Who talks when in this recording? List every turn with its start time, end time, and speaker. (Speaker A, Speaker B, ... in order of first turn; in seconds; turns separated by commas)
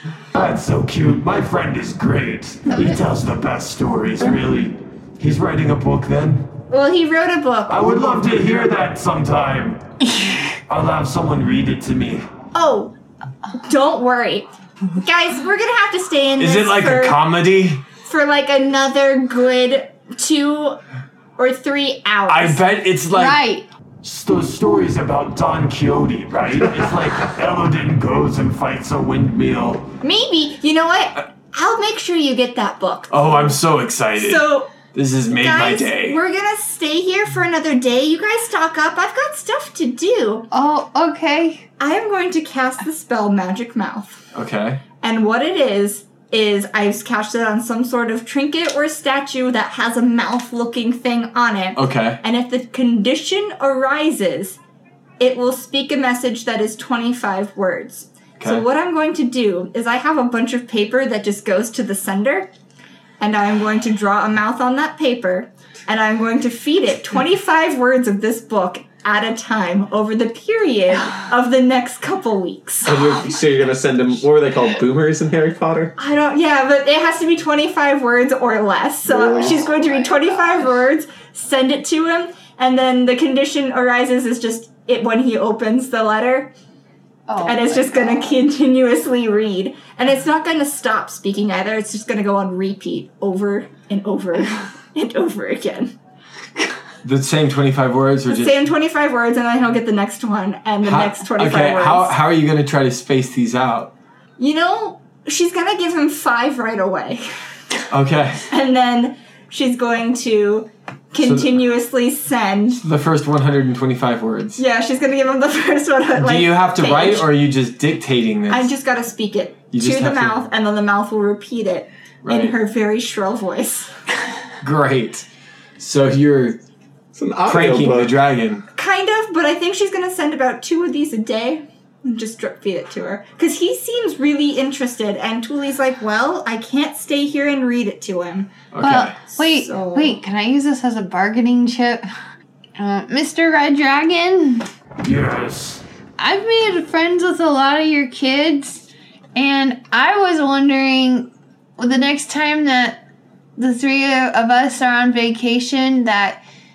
Speaker A: 0.3-6.5, Speaker B: 6.7-8.2, Speaker A: 7.7-9.8, Speaker A: 10.7-12.2, Speaker B: 12.5-12.9, Speaker B: 13.6-17.2, Speaker C: 16.4-17.8, Speaker B: 18.1-20.8, Speaker B: 21.4-22.6, Speaker C: 22.3-23.4, Speaker D: 23.1-23.7, Speaker A: 24.0-29.9, Speaker B: 30.0-33.5, Speaker C: 33.1-36.2, Speaker B: 34.2-34.7, Speaker B: 35.3-40.5, Speaker D: 40.5-41.6, Speaker B: 41.8-44.2, Speaker C: 44.3-44.8, Speaker B: 45.0-54.6, Speaker C: 51.8-52.2, Speaker B: 55.2-62.5, Speaker C: 58.4-58.6, Speaker B: 63.2-73.0, Speaker E: 72.8-75.9, Speaker B: 76.0-86.5, Speaker E: 79.1-79.7, Speaker D: 79.4-80.6, Speaker D: 87.3-88.4, Speaker B: 87.4-95.9, Speaker C: 97.0-98.6, Speaker B: 98.3-102.2, Speaker C: 100.8-103.9, Speaker B: 104.4-107.2, Speaker C: 107.9-108.5, Speaker B: 108.5-112.8, Speaker C: 111.2-111.5, Speaker C: 112.8-114.6, Speaker B: 114.6-117.3, Speaker C: 116.2-118.7, Speaker B: 118.5-123.9, Speaker C: 119.7-120.5, Speaker C: 122.2-122.6, Speaker C: 124.6-125.3, Speaker C: 125.8-126.6, Speaker E: 127.1-128.2, Speaker C: 127.5-128.7, Speaker B: 128.8-138.5, Speaker C: 138.7-139.2, Speaker D: 138.8-142.1, Speaker B: 139.3-140.2, Speaker D: 142.8-144.7, Speaker A: 145.0-145.8, Speaker D: 146.2-148.8, Speaker D: 149.3-153.0, Speaker D: 153.6-156.4